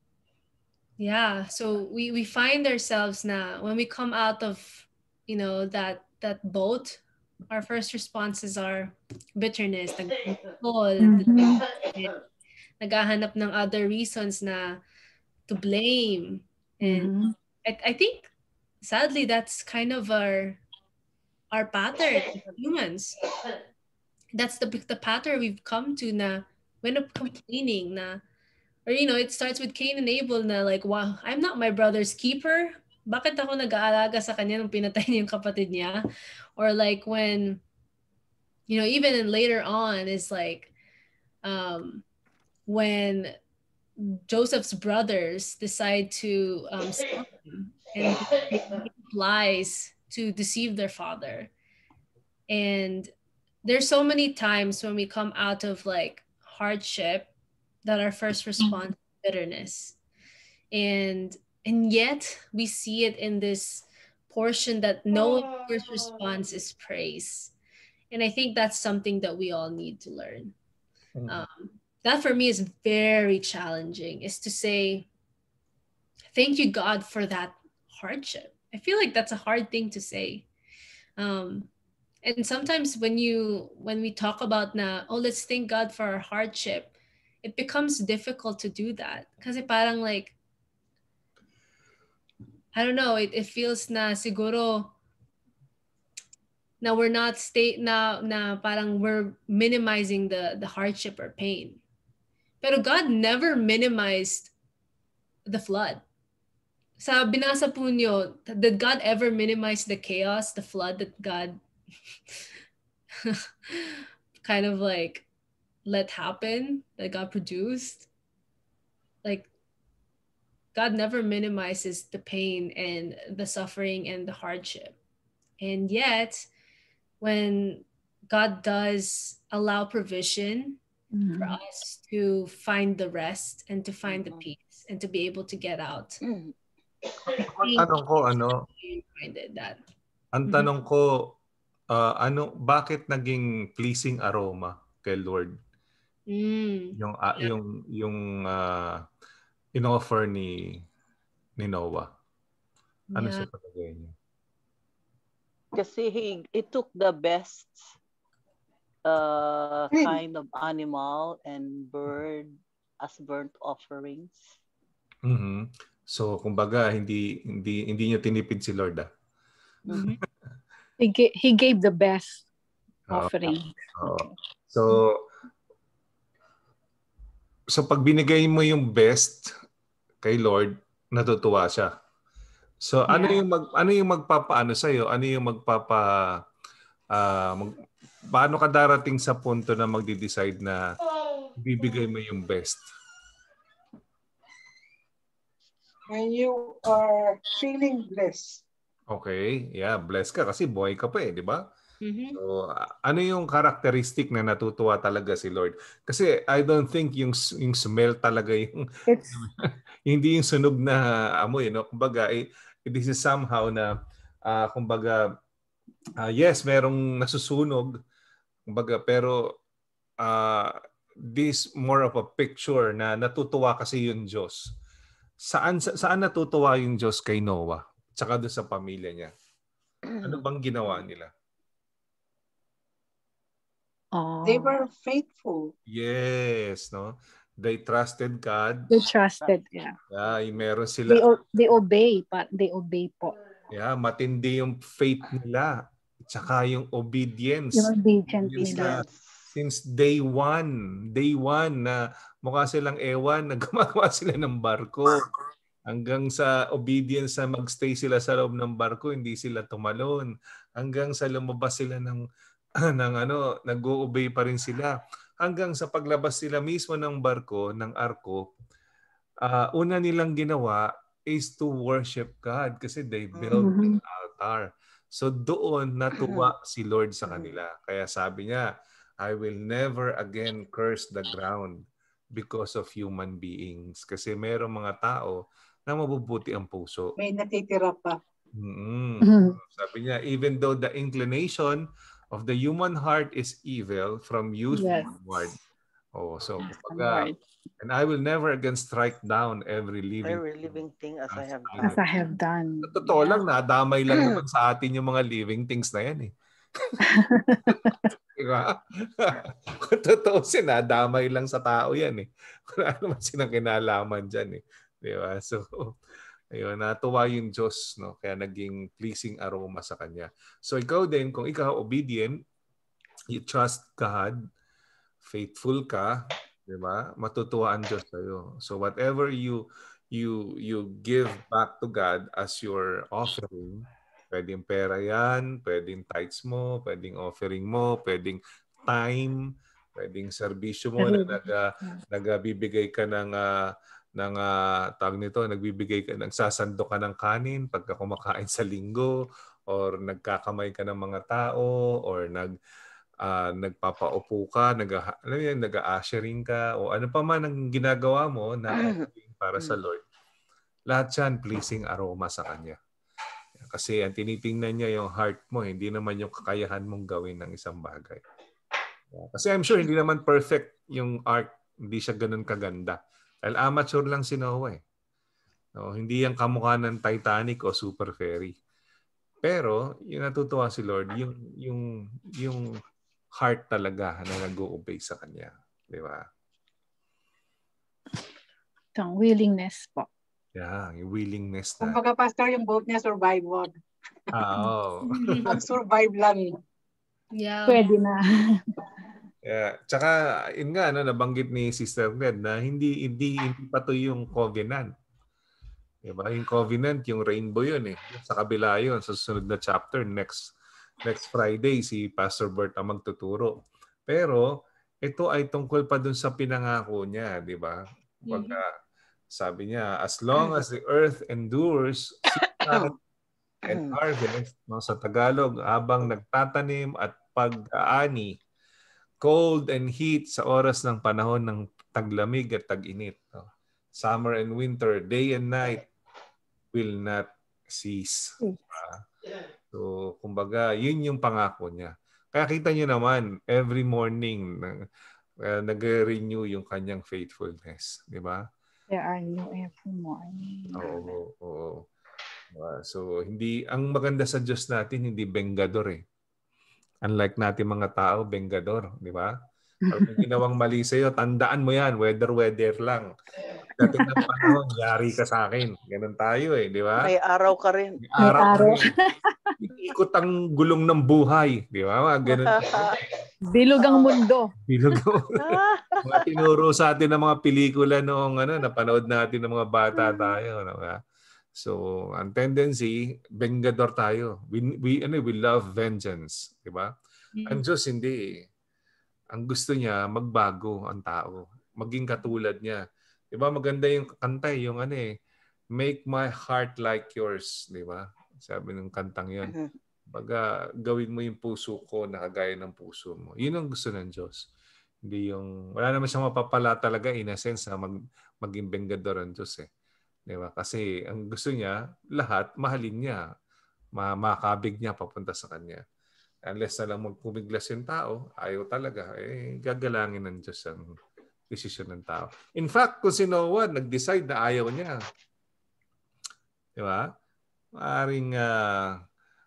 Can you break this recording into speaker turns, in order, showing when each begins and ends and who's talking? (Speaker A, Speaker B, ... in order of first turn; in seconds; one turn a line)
Speaker A: 1.0-12.1
Speaker B: 11.0-11.7
Speaker A: 12.8-14.8
Speaker A: 15.5-17.1
Speaker B: 16.8-17.3
Speaker A: 17.6-18.3
Speaker A: 18.8-20.6
Speaker A: 21.5-23.2
Speaker A: 24.4-28.2
Speaker A: 28.9-36.0
Speaker A: 36.6-37.6
Speaker A: 38.7-40.7
Speaker A: 41.4-42.0
Speaker A: 42.7-43.4
Speaker A: 44.0-47.3
Speaker A: 47.9-51.5
Speaker A: 52.5-53.1
Speaker A: 53.6-57.3
Speaker A: 57.8-60.0
Speaker A: 60.7-67.5
Speaker A: 68.1-70.5
Speaker C: 71.2-71.5
Speaker A: 71.3-75.1
Speaker A: 76.3-80.5
Speaker A: 81.2-81.7
Speaker A: 82.2-90.3
Speaker A: 92.8-94.9
Speaker A: 96.8-101.8
Speaker A: 102.6-104.5
Speaker A: 105.5-106.0
Speaker A: 107.0-111.6
Speaker A: 113.2-115.3
Speaker A: 115.9-118.1
Speaker A: 120.8-125.0
Speaker A: 125.6-126.5
Speaker A: 127.2-130.8
Speaker B: 131.2-131.6
Speaker A: 131.4-136.2
Speaker D: 134.1-134.4
Speaker D: 136.2-136.5
Speaker A: 137.6-137.9
Speaker C: 137.6-138.7
Speaker A: 138.8-139.8
Speaker C: 140.3-141.3
Speaker C: 141.9-145.6
Speaker A: 146.3-147.5
Speaker C: 147.0-149.0
Speaker C: 149.8-150.9
Speaker C: 151.6-152.1
Speaker A: 153.1-153.5
Speaker C: 153.2-154.1
Speaker D: 155.7-157.9
Speaker D: 159.1-164.6
Speaker E: 159.9-160.2
Speaker C: 165.2-169.1
Speaker A: 169.9-170.2
Speaker B: 171.0-172.5
Speaker B: 173.1-174.3
Speaker C: 173.1-175.2
Speaker C: 177.7-179.5
Speaker C: 180.2-181.9
Speaker C: 182.8-186.1
Speaker B: 183.1-183.4
Speaker C: 187.1-187.7
Speaker C: 188.3-190.8
Speaker C: 191.6-192.8
Speaker E: 196.1-198.6
Speaker C: 199.1-201.6
Speaker A: 202.0-202.4
Speaker C: 202.3-213.9
Speaker B: 209.1-209.4
Speaker C: 214.5-215.2
Speaker C: 216.2-217.9
Speaker C: 218.7-219.4
Speaker C: 220.2-220.8
Speaker C: 221.3-224.7
Speaker C: 225.5-229.3
Speaker C: 230.2-231.3
Speaker B: 234.1-234.8
Speaker E: 234.4-235.7
Speaker C: 235.9-239.0
Speaker B: 238.9-239.9
Speaker C: 240.1-241.2
Speaker B: 241.1-243.4
Speaker C: 243.7-245.7
Speaker C: 246.3-255.2
Speaker B: 247.7-249.0
Speaker D: 248.6-249.5
Speaker C: 255.9-262.2
Speaker C: 262.8-268.4
Speaker C: 269.4-278.6
Speaker D: 273.4-273.6
Speaker B: 273.6-274.0
Speaker D: 276.1-276.5
Speaker D: 277.3-277.5
Speaker C: 279.2-281.8
Speaker C: 282.3-285.4
Speaker C: 285.9-287.1
Speaker E: 287.2-288.2
Speaker C: 288.6-295.6
Speaker B: 289.2-289.6
Speaker B: 294.7-295.5
Speaker C: 296.1-302.0
Speaker B: 296.6-297.4
Speaker D: 300.2-302.0
Speaker B: 301.8-303.4
Speaker C: 302.8-306.3
Speaker B: 307.0-308.1
Speaker C: 307.7-316.0
Speaker C: 316.5-322.4
Speaker C: 323.3-324.4
Speaker C: 325.2-339.4
Speaker C: 340.0-343.6
Speaker B: 341.0-342.0
Speaker C: 344.2-349.1
Speaker C: 349.7-352.5
Speaker C: 353.2-360.0
Speaker D: 358.7-359.1
Speaker C: 360.9-362.8
Speaker C: 363.6-368.2
Speaker C: 369.1-374.8
Speaker C: 375.8-378.5
Speaker C: 379.4-382.7
Speaker C: 383.4-386.2
Speaker B: 389.0-390.1
Speaker C: 390.6-392.0
Speaker E: 391.8-393.7
Speaker C: 394.3-395.7
Speaker A: 395.2-395.5
Speaker E: 395.5-396.5
Speaker A: 397.3-397.8
Speaker B: 397.7-398.6
Speaker C: 399.4-404.9
Speaker C: 406.0-413.6
Speaker C: 414.1-414.5
Speaker C: 415.0-418.7
Speaker A: 418.3-418.6
Speaker C: 419.4-422.9
Speaker D: 423.7-424.0
Speaker C: 423.7-428.4
Speaker C: 429.2-435.8
Speaker C: 436.7-439.0
Speaker C: 439.7-444.8
Speaker C: 445.4-448.4
Speaker B: 448.9-451.2
Speaker C: 450.8-451.8
Speaker C: 452.5-456.0
Speaker C: 457.0-459.3
Speaker B: 459.9-460.3
Speaker C: 459.9-463.1
Speaker C: 463.8-467.1
Speaker B: 463.8-464.5
Speaker D: 467.0-468.4
Speaker C: 468.0-468.9
Speaker B: 468.2-469.5
Speaker C: 469.6-473.0
Speaker D: 472.3-473.0
Speaker B: 473.5-474.5
Speaker D: 473.8-474.2
Speaker C: 474.7-481.0
Speaker D: 475.4-476.2
Speaker C: 481.6-486.9
Speaker C: 487.5-488.4
Speaker C: 489.3-492.8
Speaker C: 493.3-495.1
Speaker C: 495.8-499.6
Speaker C: 500.1-504.4
Speaker C: 505.1-509.7
Speaker C: 510.3-513.2
Speaker C: 514.0-515.8
Speaker C: 516.5-520.8
Speaker C: 521.5-524.9
Speaker C: 526.8-527.1
Speaker C: 527.8-528.9